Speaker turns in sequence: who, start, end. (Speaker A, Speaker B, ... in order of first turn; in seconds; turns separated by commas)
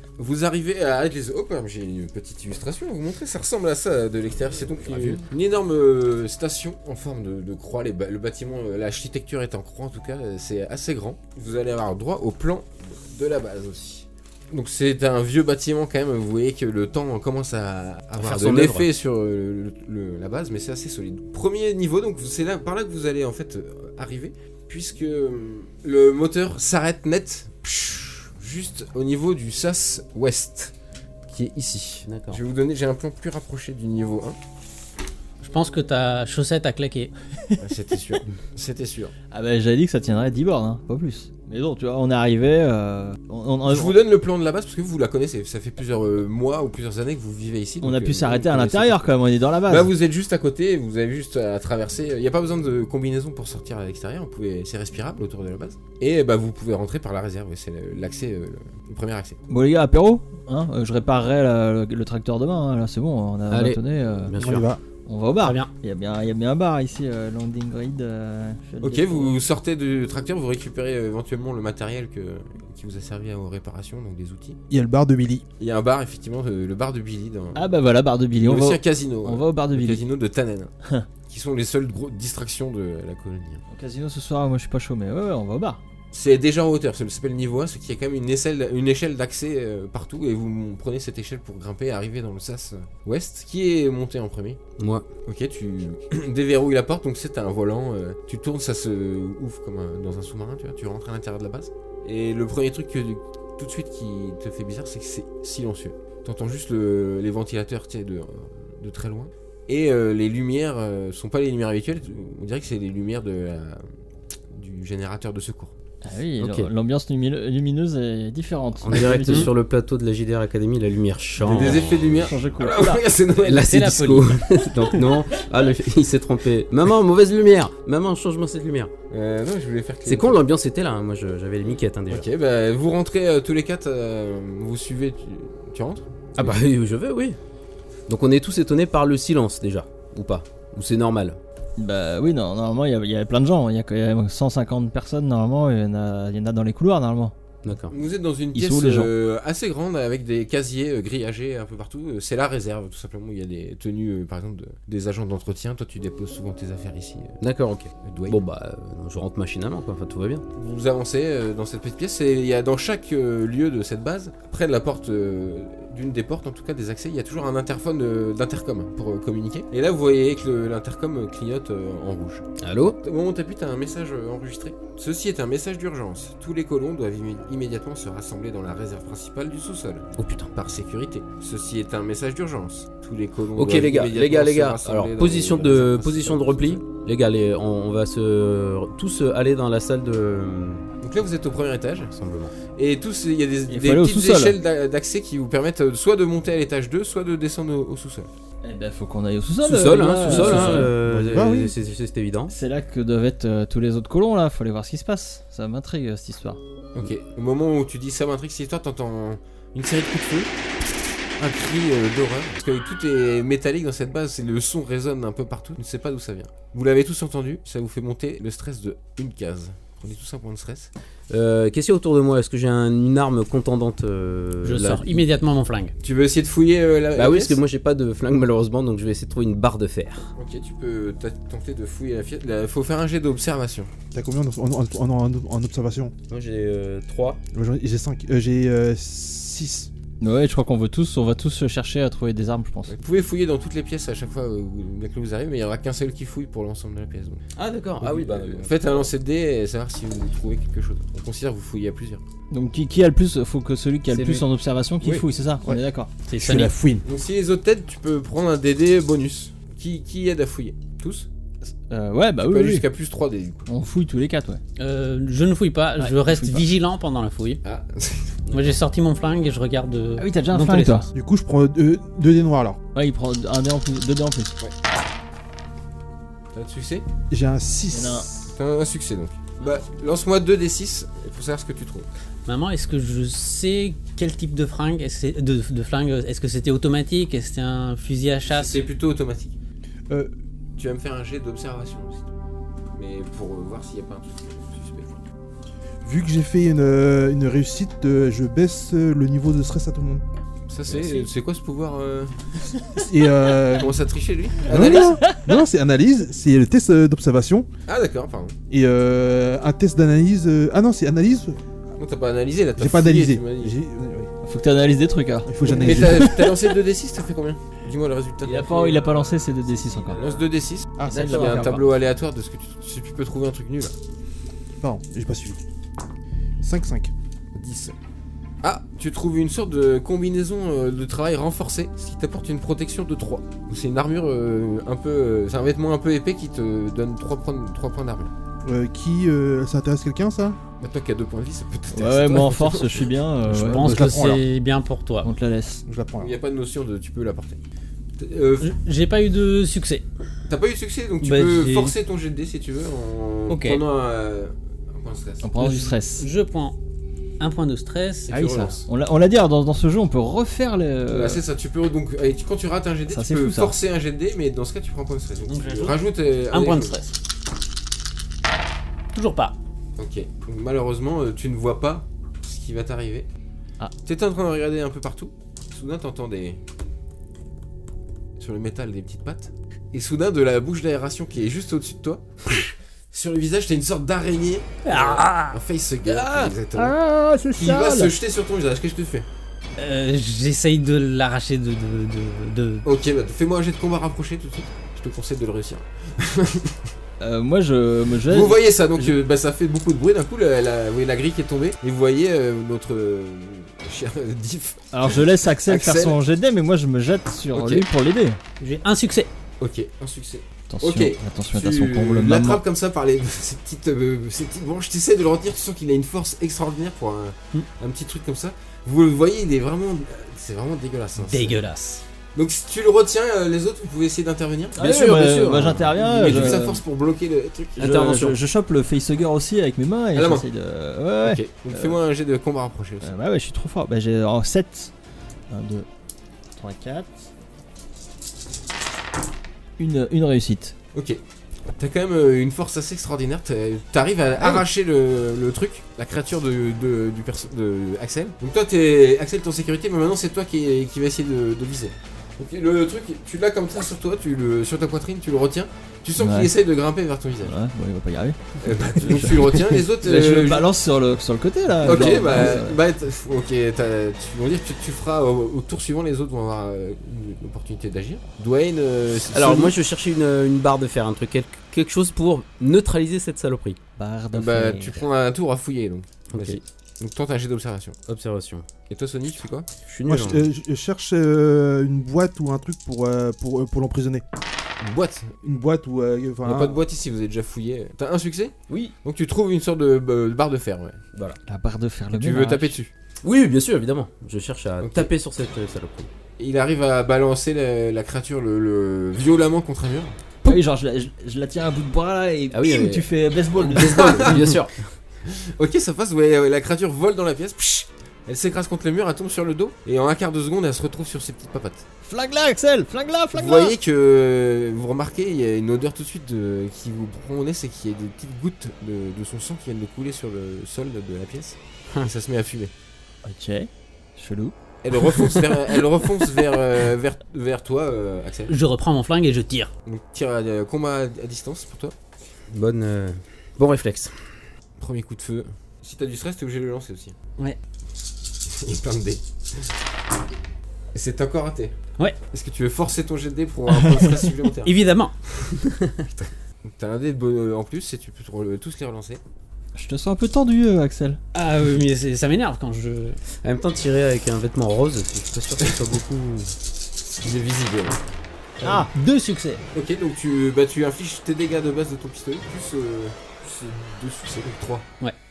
Speaker A: 0.2-30.7, Speaker B: 4.8-5.2, Speaker B: 18.2-18.9, Speaker A: 31.3-34.4, Speaker B: 32.1-32.4, Speaker C: 35.4-37.1, Speaker A: 37.6-39.1, Speaker D: 39.3-44.0, Speaker A: 43.7-49.1, Speaker D: 47.8-49.9, Speaker A: 49.7-59.4, Speaker D: 59.5-64.3, Speaker B: 63.5-64.7, Speaker E: 64.4-64.8, Speaker D: 65.0-69.3, Speaker C: 65.4-65.7, Speaker A: 68.8-74.6, Speaker E: 74.7-75.4, Speaker A: 75.6-77.6, Speaker D: 77.5-80.0, Speaker A: 78.4-80.7, Speaker A: 81.3-83.6, Speaker D: 83.7-85.8, Speaker A: 86.1-94.6, Speaker B: 94.8-95.0, Speaker A: 95.2-113.8, Speaker A: 114.5-115.7, Speaker D: 116.0-119.5, Speaker B: 116.4-116.7, Speaker B: 118.8-122.3, Speaker A: 121.4-123.9, Speaker D: 121.5-123.0, Speaker B: 123.4-128.9, Speaker C: 123.5-124.4, Speaker A: 129.1-130.4, Speaker B: 130.1-132.2, Speaker A: 132.1-136.5, Speaker B: 136.4-137.4, Speaker B: 138.1-141.4, Speaker D: 141.8-147.3, Speaker B: 147.6-147.9, Speaker A: 147.9-157.3, Speaker D: 148.5-149.1, Speaker B: 157.4-160.4, Speaker A: 158.0-158.4, Speaker A: 160.5-186.8, Speaker B: 172.6-172.9, Speaker B: 180.2-180.5, Speaker B: 183.5-190.8, Speaker A: 191.0-192.1, Speaker B: 192.1-192.5, Speaker A: 192.7-198.3, Speaker D: 193.7-194.6, Speaker D: 198.6-200.9, Speaker B: 199.6-202.5, Speaker E: 200.3-201.8, Speaker D: 202.5-206.6, Speaker A: 206.9-210.5, Speaker A: 211.4-220.9, Speaker B: 221.3-225.2, Speaker C: 224.6-225.9, Speaker A: 226.0-227.6, Speaker B: 227.1-230.3, Speaker A: 230.3-233.9, Speaker E: 234.1-236.1, Speaker B: 236.3-237.4, Speaker E: 237.5-239.9, Speaker D: 240.2-242.9, Speaker A: 242.9-247.4, Speaker B: 247.6-249.1, Speaker A: 248.0-252.2, Speaker D: 252.5-256.1, Speaker B: 254.1-254.4, Speaker C: 256.3-256.7, Speaker E: 256.3-257.0, Speaker A: 257.0-261.3, Speaker D: 261.9-262.9, Speaker A: 262.4-263.6, Speaker D: 263.6-264.6, Speaker C: 264.8-267.6, Speaker D: 266.0-266.7, Speaker A: 267.6-268.4, Speaker C: 268.5-271.1, Speaker D: 270.2-271.1, Speaker E: 271.1-272.8, Speaker D: 272.9-274.5, Speaker A: 276.5-277.0, Speaker E: 277.3-278.3, Speaker D: 277.9-278.3, Speaker A: 278.5-282.1, Speaker C: 282.4-288.8, Speaker A: 288.5-289.6, Speaker A: 290.8-292.3, Speaker A: 292.9-295.2, Speaker E: 296.0-300.2, Speaker A: 300.7-302.4, Speaker E: 302.9-304.0, Speaker A: 303.7-305.2, Speaker E: 304.6-307.7, Speaker D: 304.7-305.6, Speaker A: 307.9-308.6, Speaker E: 308.7-311.6, Speaker A: 312.0-313.8, Speaker E: 312.8-314.3, Speaker D: 314.4-316.4, Speaker E: 315.4-316.4, Speaker A: 315.6-318.8, Speaker D: 318.5-320.2, Speaker B: 318.7-318.9, Speaker A: 320.1-323.9, Speaker E: 321.0-321.8, Speaker D: 321.0-321.8, Speaker E: 324.8-325.6, Speaker E: 326.6-327.1, Speaker A: 327.5-327.9, Speaker A: 328.6-338.3, Speaker E: 338.6-340.6, Speaker A: 340.8-343.1, Speaker D: 341.9-344.3, Speaker E: 343.5-344.4, Speaker C: 343.6-345.3, Speaker D: 345.2-345.8, Speaker E: 345.9-346.3, Speaker A: 346.2-347.6, Speaker A: 348.2-348.7, Speaker C: 348.6-350.0, Speaker A: 350.5-355.6, Speaker C: 351.2-351.9, Speaker C: 353.5-353.8, Speaker D: 355.4-356.3, Speaker C: 355.6-356.8, Speaker C: 357.4-358.7, Speaker A: 358.3-358.8, Speaker D: 358.3-361.4, Speaker A: 361.1-367.0, Speaker D: 363.1-363.7, Speaker C: 365.5-367.1, Speaker C: 369.1-369.6, Speaker A: 370.0-373.3, Speaker A: 374.0-376.6, Speaker A: 378.4-387.0, Speaker C: 384.8-385.6, Speaker C: 386.1-386.5, Speaker D: 386.7-388.1, Speaker A: 387.6-389.3, Speaker C: 389.8-392.9, Speaker A: 392.8-396.8, Speaker D: 397.2-399.1, Speaker A: 398.2-404.9, Speaker D: 404.9-408.4, Speaker A: 405.6-406.2, Speaker A: 407.5-407.9, Speaker C: 408.6-409.3, Speaker A: 409.6-421.6, Speaker D: 410.7-412.6, Speaker C: 421.2-422.0, Speaker A: 422.3-425.0, Speaker D: 424.8-426.8, Speaker B: 424.8-426.4, Speaker A: 425.6-427.9, Speaker D: 427.8-432.0, Speaker B: 427.8-428.4, Speaker A: 430.1-430.4, Speaker A: 431.2-433.1, Speaker D: 433.0-434.9, Speaker D: 435.5-435.9, Speaker D: 436.6-437.3, Speaker D: 439.8-440.7, Speaker A: 440.9-441.2, Speaker A: 441.7-457.5, Speaker D: 456.2-456.5, Speaker D: 457.4-462.8, Speaker A: 458.6-460.7, Speaker A: 461.8-469.7, Speaker B: 469.3-473.8, Speaker D: 474.0-475.0, Speaker A: 474.3-477.9, Speaker B: 476.3-476.6, Speaker B: 478.1-478.6, Speaker A: 478.9-479.7, Speaker B: 479.9-480.4, Speaker E: 480.1-484.2, Speaker A: 484.8-485.4, Speaker E: 485.4-486.8, Speaker A: 486.4-491.0, Speaker B: 491.1-491.4, Speaker D: 491.5-492.7, Speaker A: 492.1-492.9, Speaker B: 493.2-496.1, Speaker A: 494.8-495.1, Speaker A: 496.4-500.1, Speaker D: 500.4-504.4, Speaker B: 502.5-504.9, Speaker A: 503.7-504.5, Speaker A: 505.2-511.8, Speaker D: 512.0-513.7, Speaker A: 513.3-522.7, Speaker D: 523.2-524.5, Speaker A: 524.8-528.5, Speaker C: 528.5-529.7, Speaker A: 529.9-531.9, Speaker B: 532.5-534.4, Speaker A: 534.8-537.1, Speaker A: 538.4-539.7, Speaker A: 540.9-541.8, Speaker A: 542.3-544.8, Speaker D: 543.7-544.1, Speaker C: 544.6-545.1, Speaker A: 546.2-549.2, Speaker D: 549.7-551.2, Speaker C: 551.3-553.2, Speaker B: 553.4-556.5, Speaker A: 557.2-558.0, Speaker D: 558.6-558.9, Speaker C: 558.6-559.6, Speaker A: 559.7-564.9